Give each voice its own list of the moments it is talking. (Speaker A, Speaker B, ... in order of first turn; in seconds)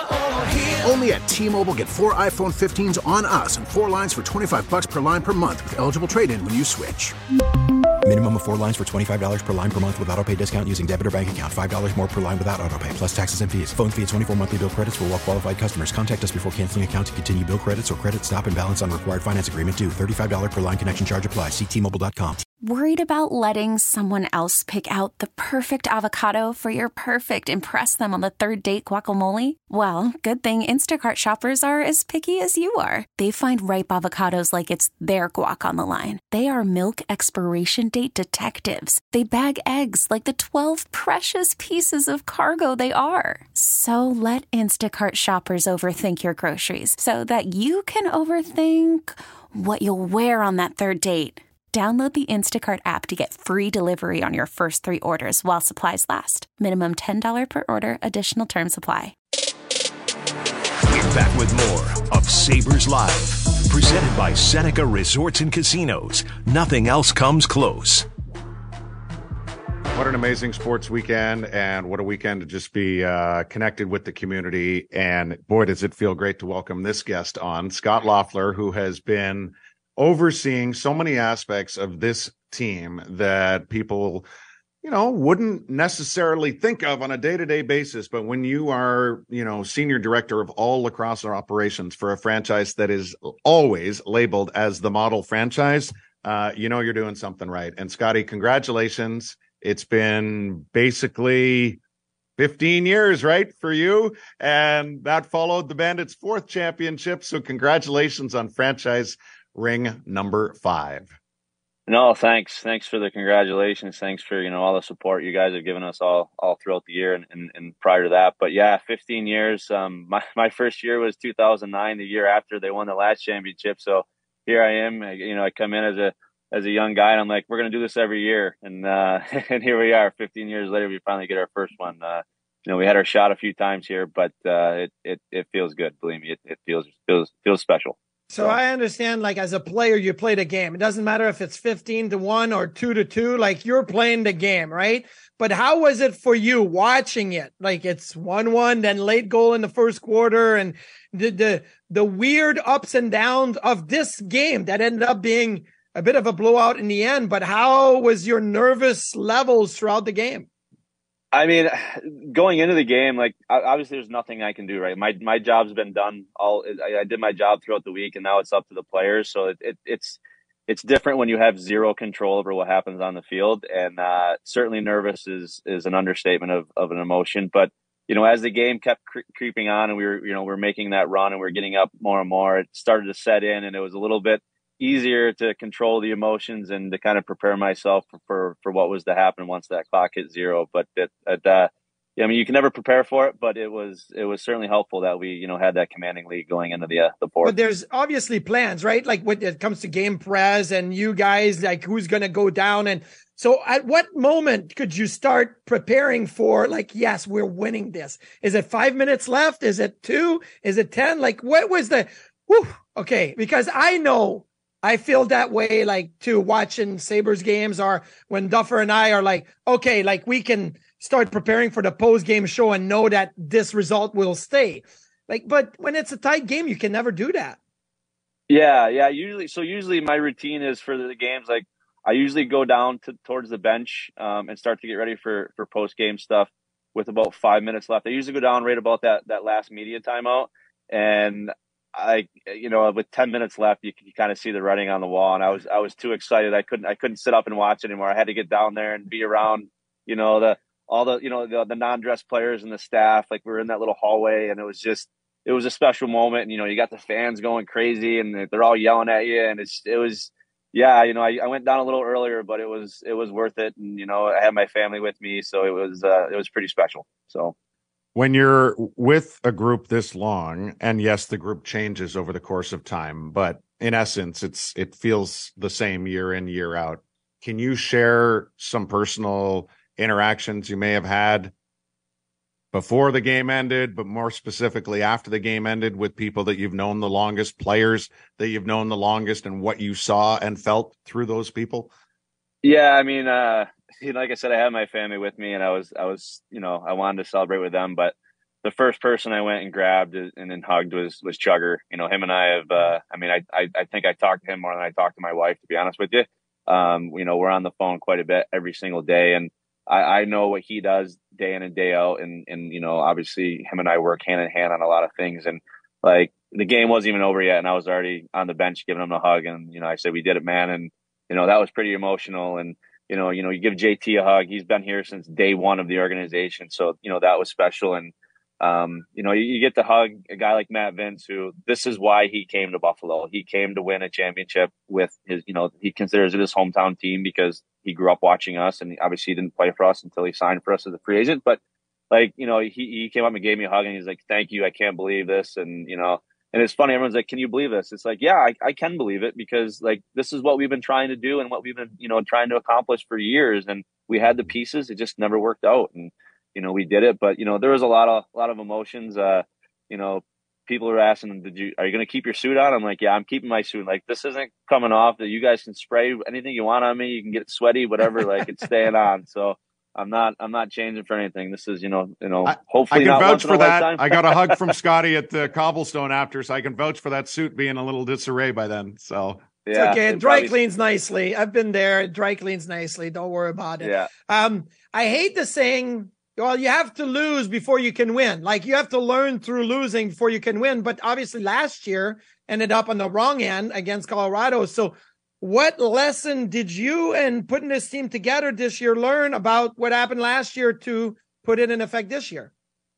Speaker A: 0.4-7.1
Speaker B: 8.0-22.4
Speaker C: 22.6-59.1
Speaker D: 60.9-68.1
Speaker E: 69.9-84.3, 84.8-101.8, 102.4-111.2, 268.1-281.5, 282.7-291.9, 372.4-379.4
Speaker F: 111.9-138.6, 161.3-197.6, 228.5-267.5, 292.6-341.6, 342.1-374.8, 379.7-380.6, 383.8-384.1
Speaker G: 138.3-160.5, 197.4-227.6, 379.7-402.5